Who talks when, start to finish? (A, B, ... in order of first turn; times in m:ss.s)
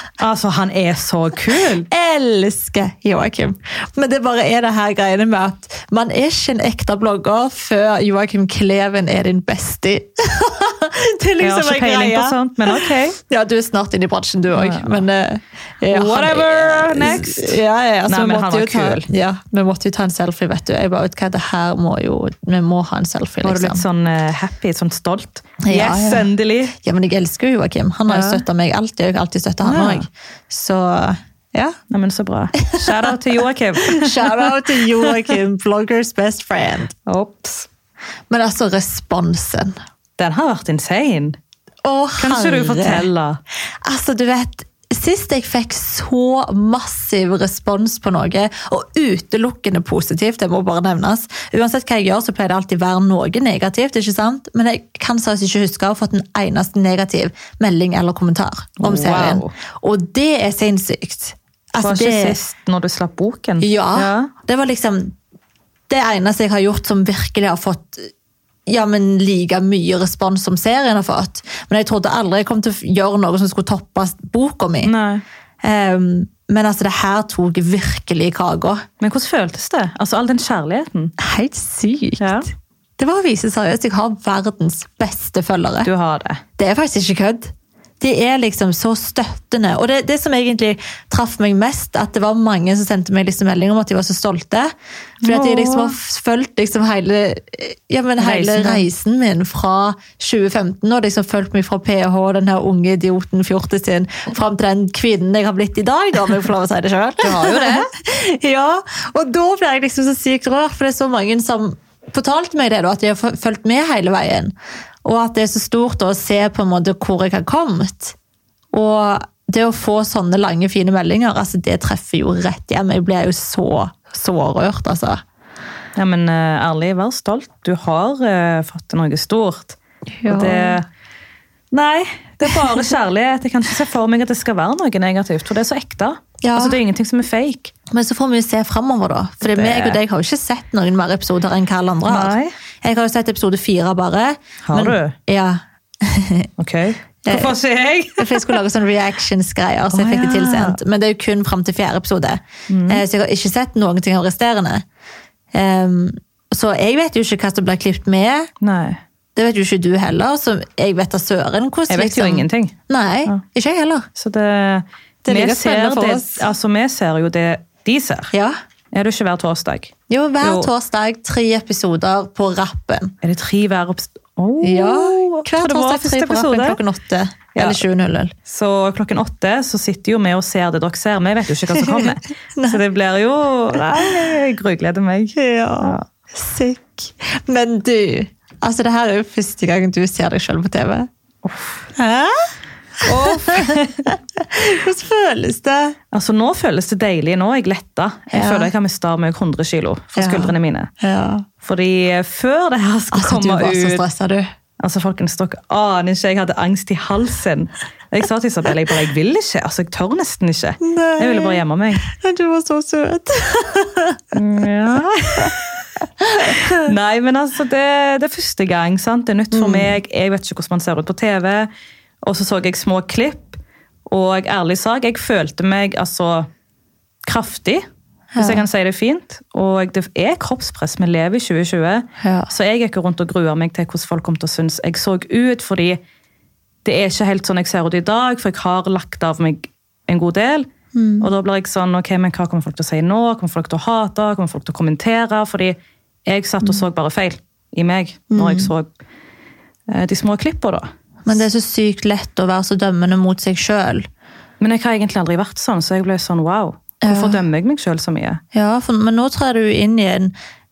0:00.2-0:01.9 A
0:01.9-0:23.8 B
0:11.4-0:13.2 A
0:14.5-0:15.0 A
0:15.9-0:19.1 A
0:23.4-0:26.8 A
0:25.6-0:31.8 B
0:28.1-0:28.4 A
0:29.6-0:30.1 A
0:31.9-0:35.4 A
0:32.6-0:32.9 B
0:33.8-0:37.0 B
0:37.1-0:37.7 A
0:38.3-0:39.8 B
0:40.2-0:41.4 A
0:41.8-0:43.1 B
0:42.2-0:43.4 A
0:43.8-1:02.4 B
0:58.8-0:59.5 A
1:01.8-1:04.3 A
1:03.6-1:05.2 B
1:05.9-1:08.1 B
1:08.7-1:14.9 B
1:14.8-1:15.2 A
1:15.6-1:18.8 B
1:19.0-1:21.1 A
1:21.2-1:22.5 B
1:22.2-1:22.5 A
1:23.0-1:25.9 B
1:25.8-1:26.4 A
1:26.6-1:58.1 B
1:35.2-1:36.0 A
1:38.2-1:38.9 A
1:47.2-1:47.9 A
1:58.7-2:05.2 B
2:06.0-2:10.9 A
2:10.1-2:10.8 B
2:11.7-2:17.7 A
2:16.4-2:16.8 B
2:17.9-2:26.5 B
2:19.4-2:20.0 A
2:22.1-2:22.5 A
2:24.6-2:25.1 A
2:26.6-2:28.6 A
2:27.2-2:27.6 B
2:28.2-2:34.8 B
2:29.9-2:30.8 A
2:32.7-2:33.0 A
2:35.5-2:38.5 B
2:38.6-2:39.0 A
2:39.4-2:44.1 B
2:41.9-2:42.8 A
2:44.1-2:48.3 A
2:45.2-2:46.4 B
2:48.3-2:48.6 B
2:48.9-2:50.7 A
2:50.1-2:53.1 B
2:53.2-2:56.8 A
2:54.6-2:58.3 B
2:57.6-2:57.8 A
2:58.5-3:06.1 A
3:01.8-3:02.8 B
3:05.4-3:11.1 B
3:11.4-3:11.9 A
3:12.0-3:16.0 B
3:13.0-3:14.1 A
3:16.1-3:20.9 A
3:18.3-3:18.7 B
3:20.2-3:21.5 B
3:21.6-3:24.0 A
3:23.1-3:24.5 B
3:24.8-3:32.0 A
3:30.8-3:34.2 B
3:34.3-3:35.6 A
3:36.3-3:36.9 B
3:36.4-3:41.7 A
3:39.5-3:40.0 B
3:42.2-3:46.5 A
3:47.2-3:47.9 A
3:48.4-3:48.6 B
3:48.4-3:56.0 A
3:52.2-3:52.5 B
3:56.8-4:00.7 A
4:00.9-4:01.3 B
4:01.2-4:08.9 A
4:08.3-4:08.7 B
4:09.9-4:10.9 A
4:11.3-4:14.1 B
4:14.6-4:18.4 A
4:17.0-4:17.4 B
4:18.5-4:20.3 B